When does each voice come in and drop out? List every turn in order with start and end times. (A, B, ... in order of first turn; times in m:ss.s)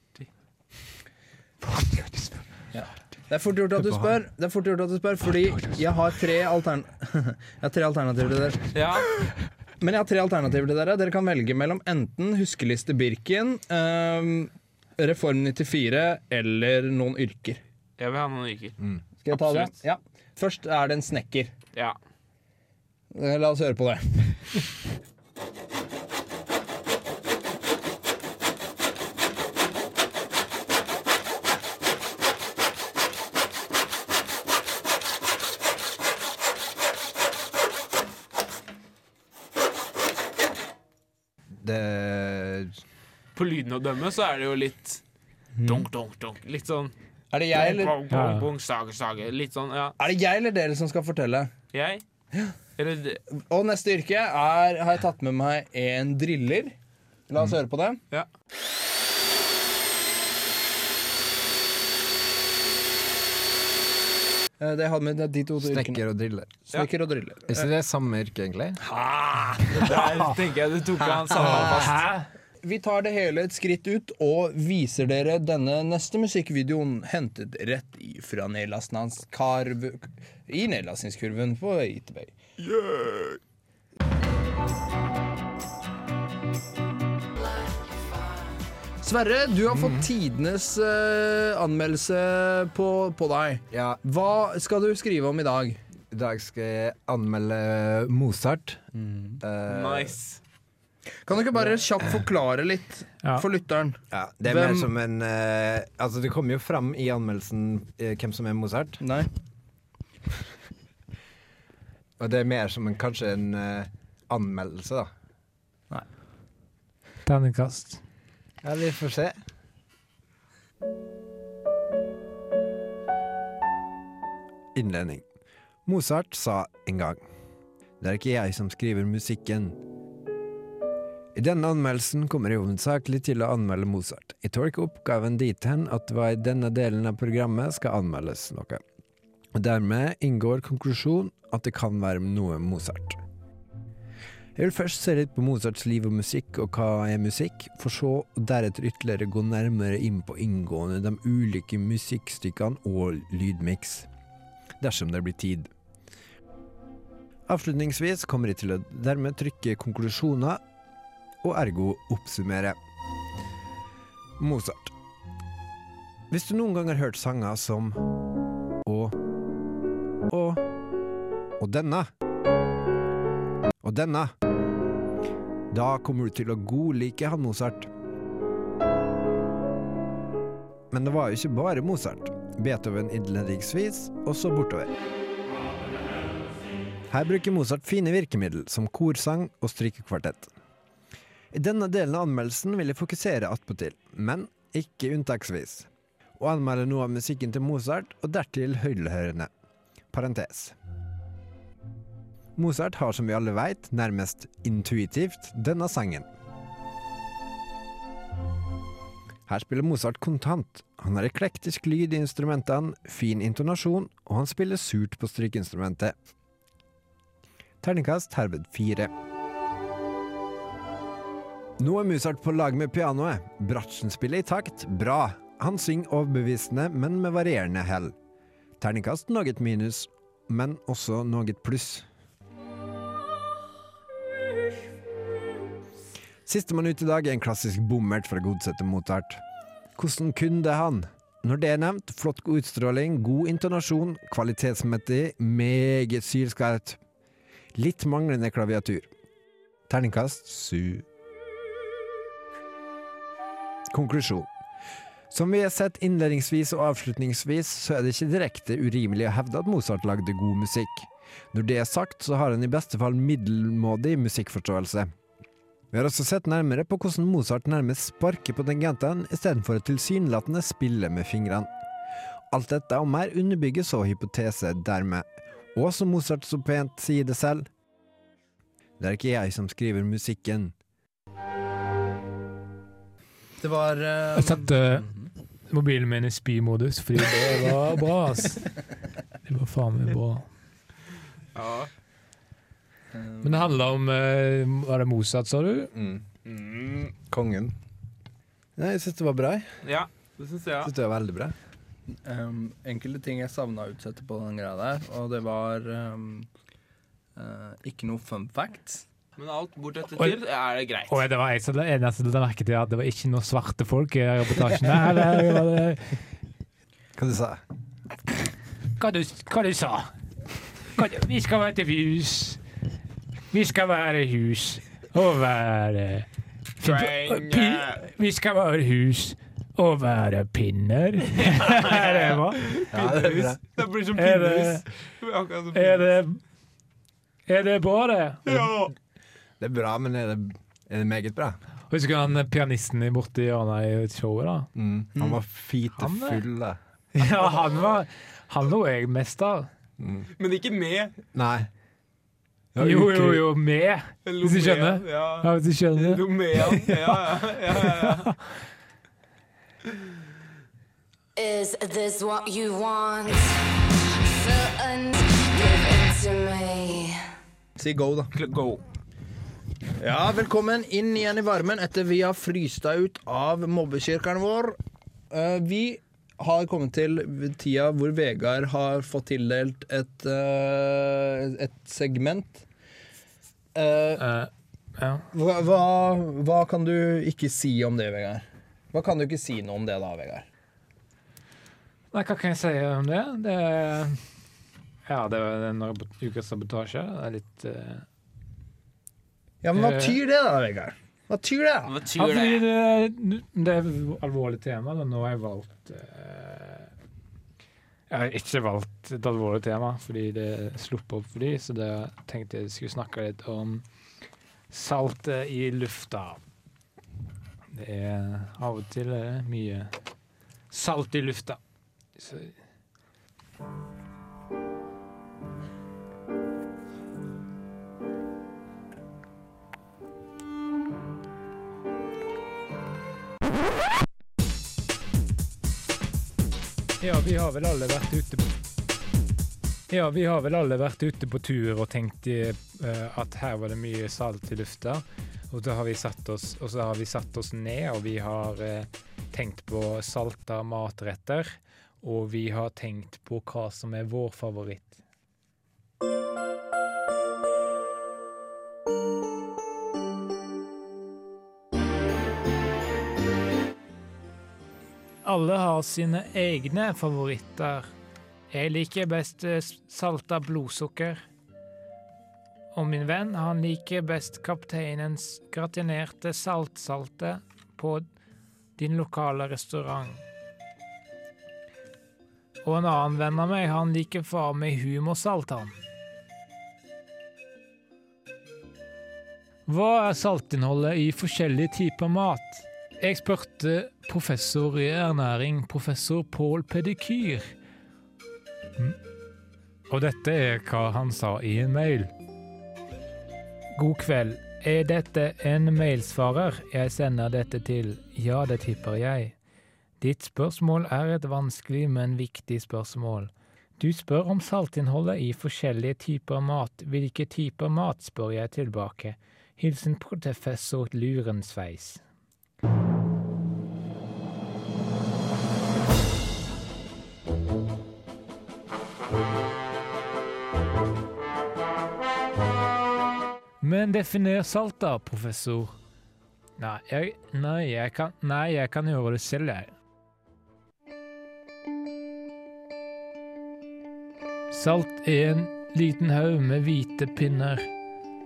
0:01.6-0:02.4 A
0:02.7-0:08.7 B
0:03.8-0:04.2 C
0:08.7-0:09.1 D
0:09.8-0:17.6 B
0:18.0-0:18.8 D
0:19.2-0:21.5 B
0:19.3-0:19.7 D
0:23.1-0:24.4 B
0:41.6-0:42.7 C
0:43.3-0:45.0 D
0:45.6-0:45.8 B
0:45.6-0:46.9 D
0:47.3-0:48.0 B
0:47.5-0:50.0 D
0:48.1-0:48.5 A
0:50.0-0:51.5 B
0:51.7-0:52.0 D
0:52.8-0:53.2 D
0:53.3-0:56.7 B
0:57.3-0:58.0 B
1:04.6-1:06.0 B
1:05.6-1:06.6 C
1:06.7-1:07.7 B
1:07.5-1:08.8 C
1:08.8-1:09.9 B
1:09.7-1:12.0 D
1:10.0-1:10.3 C
1:11.1-1:11.6 C
1:11.4-1:12.3 A
1:11.5-1:11.8 B
1:12.6-1:22.3 B
1:22.6-1:23.4 D
1:27.7-1:28.0 E
1:29.0-1:35.8 B
1:29.7-1:30.1 C
1:33.7-1:34.0 C
1:36.1-1:40.2 C
1:39.0-1:39.4 B
1:39.6-1:40.4 D
1:41.2-1:44.9 B
1:44.1-1:49.0 C
1:49.0-1:49.3 B
1:52.2-1:55.1 C
1:57.2-1:58.0 A
1:58.6-1:59.4 C
2:04.7-2:05.2 C
2:05.8-2:07.2 C
2:08.0-2:09.8 C
2:11.3-2:18.8 C
2:19.5-2:23.2 C
2:24.6-2:34.1 C
2:34.8-2:35.7 C
2:37.5-2:40.6 C
2:41.4-2:42.8 C
2:44.4-2:44.9 C
2:46.3-2:48.0 C
2:48.8-2:49.2 C
2:50.3-2:50.6 C
2:51.6-2:52.1 C
2:53.8-2:54.3 C
2:55.7-2:57.9 C
3:00.9-3:04.9 C
3:07.1-3:10.5 C
3:11.5-3:19.5 C
3:20.1-3:20.7 C
3:22.6-3:26.3 C
3:29.5-3:36.1 C
3:37.8-3:39.1 C
3:41.8-3:48.1 C
3:48.8-3:52.0 C
3:56.4-3:59.4 C
4:00.0-4:07.0 C
4:07.8-4:09.1 C
4:09.9-4:11.0 C
4:13.9-4:14.5 C
4:15.3-4:25.1 C
4:25.9-4:31.7 C
4:32.5-4:37.7 C
4:39.0-4:40.7 C
4:43.6-4:45.3 B
4:44.3-4:45.0 A
4:45.7-4:48.7 A
4:49.4-4:50.4 A
4:51.5-4:51.9 D
4:53.1-4:53.8 B
4:53.4-4:55.9 A
4:55.9-4:56.2 C
4:56.4-4:57.1 D
4:57.3-4:57.7 C
4:58.8-4:59.7 C
4:59.8-5:00.9 D
5:00.8-5:01.5 C
5:02.2-5:06.5 B
5:07.4-5:09.0 B
5:09.4-5:11.2 D
5:11.1-5:16.1 A
5:17.2-5:17.6 C
5:19.0-5:20.1 A
5:20.9-5:22.6 A
5:23.5-5:26.3 A
5:26.8-5:32.6 A
5:26.8-5:28.0 D
5:31.4-5:36.1 D
5:32.9-5:33.6 C
5:34.2-5:34.8 A
5:35.7-5:36.4 A
5:37.5-5:38.7 A
5:38.4-5:38.9 D
5:39.6-5:41.6 C
5:41.9-5:44.7 A
5:44.7-5:46.8 C
5:45.9-5:46.4 A
5:47.1-5:49.7 A
5:50.0-5:50.3 C
5:50.4-5:51.1 D
5:51.3-5:51.7 C
5:52.7-5:53.5 C
5:52.8-5:56.2 A
5:54.2-5:58.3 D
5:57.8-5:58.3 A
6:01.4-6:03.6 E
6:04.2-6:07.2 E
6:07.8-6:08.3 B
6:08.3-6:08.8 D
6:10.0-6:14.8 B
6:15.3-6:22.6 B
6:23.7-6:24.2 B
6:24.2-6:25.3 A
6:25.3-6:30.4 B
6:32.1-6:34.2 A
6:35.1-6:38.0 A
6:39.6-6:41.9 B
6:39.7-6:40.2 A
6:41.8-6:42.6 D
6:42.2-6:46.9 A
6:48.1-6:53.8 A
6:54.7-6:56.4 A
6:57.7-6:59.9 A
7:00.7-7:01.6 A
7:02.2-7:02.5 A
7:17.0-7:18.5 A
7:19.9-7:35.0 A
7:45.2-7:47.9 A
7:48.5-7:51.2 A
7:52.7-7:58.0 A
7:58.8-8:00.2 A
8:02.6-8:05.8 A
8:09.7-8:17.5 A
8:19.9-8:22.1 A
8:23.8-8:29.4 A
8:30.0-8:42.0 A
8:53.6-8:55.8 A
8:56.6-8:59.7 A
9:04.5-9:07.7 A